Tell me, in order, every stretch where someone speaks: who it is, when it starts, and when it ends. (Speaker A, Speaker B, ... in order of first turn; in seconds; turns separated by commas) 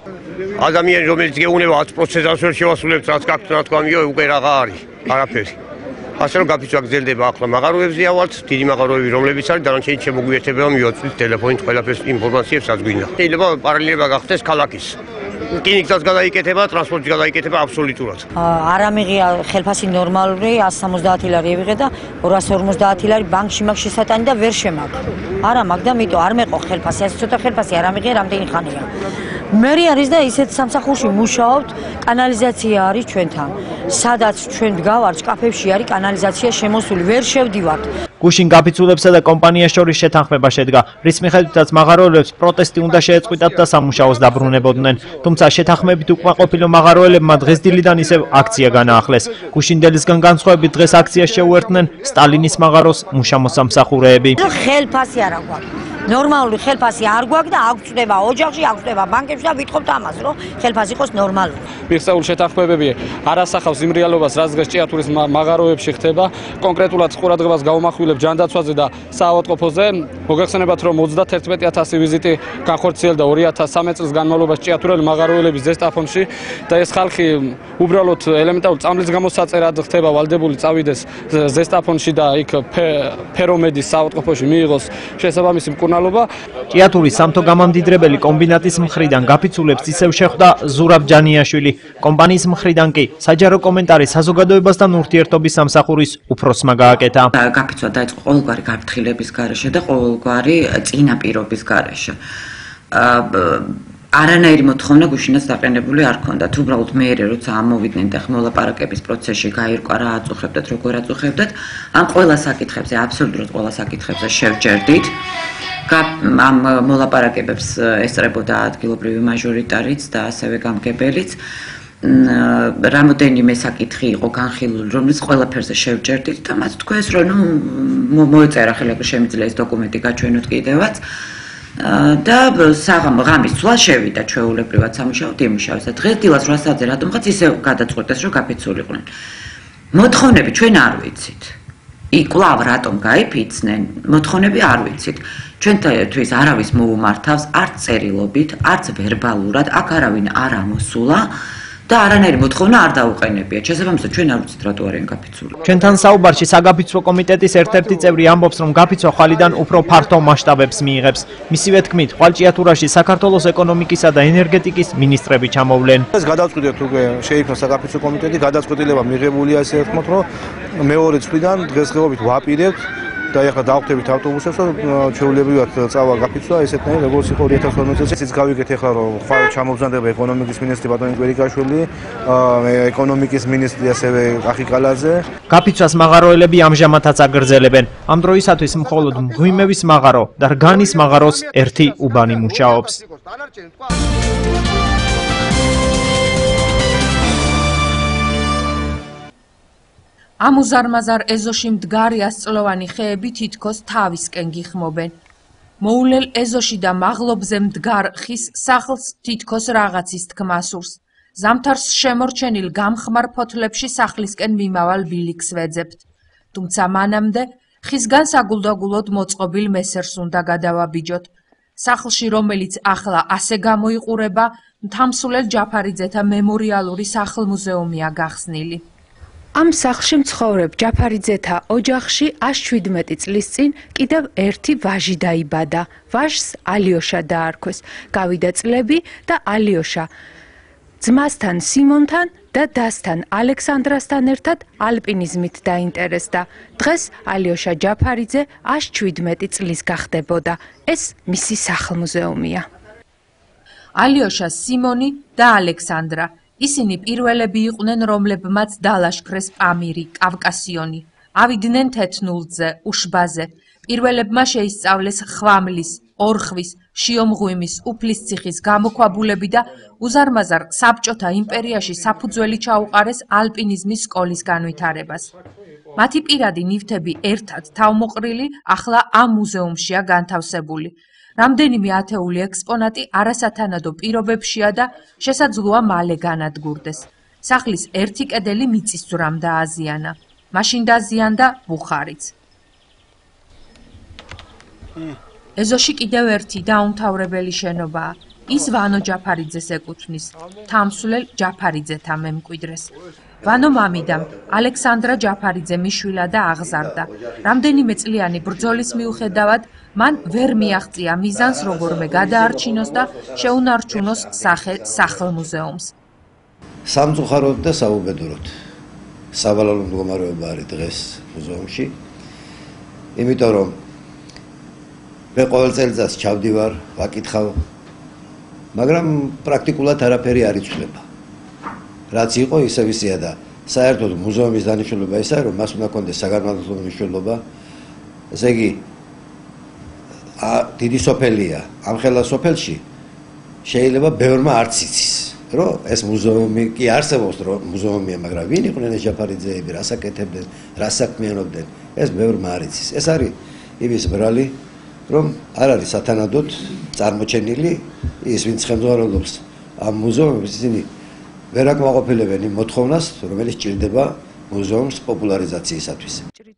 Speaker A: 0.6-5.6, Speaker A: 6.2-15.0, Speaker A: 15.5-18.2, Speaker B: 18.4-28.9, Speaker B: 29.5-37.9, Speaker C: 38.2-54.4, Speaker B: 54.4-61.7, Speaker D: 61.9-86.3, Speaker C: 86.7-97.3, Speaker E: 97.3-102.2, Speaker E: 102.9-115.1, Speaker E: 115.9-121.4, Speaker E: 122.0-131.0, Speaker E: 131.8-139.1, Speaker E: 139.9-141.6, Speaker E: 142.1-151.3, Speaker E: 151.9-155.6, Speaker C: 155.6-166.1, Speaker F: 166.1-185.3, Speaker C: 185.5-193.0, Speaker G: 200.4-205.2, Speaker G: 205.8-228.8, Speaker H: 229.6-240.1, Speaker H: 241.0-252.7, Speaker G: 254.0-275.3, Speaker G: 276.0-292.3, Speaker G: 295.6-315.9, Speaker I: 316.9-318.5, Speaker I: 319.3-322.0, Speaker I: 323.2-323.8, Speaker I: 325.4-327.6, Speaker I: 328.8-331.0, Speaker I: 332.1-337.4, Speaker I: 338.3-338.9, Speaker I: 340.4-342.8, Speaker I: 343.6-354.6, Speaker I: 355.1-360.9, Speaker I: 361.5-366.2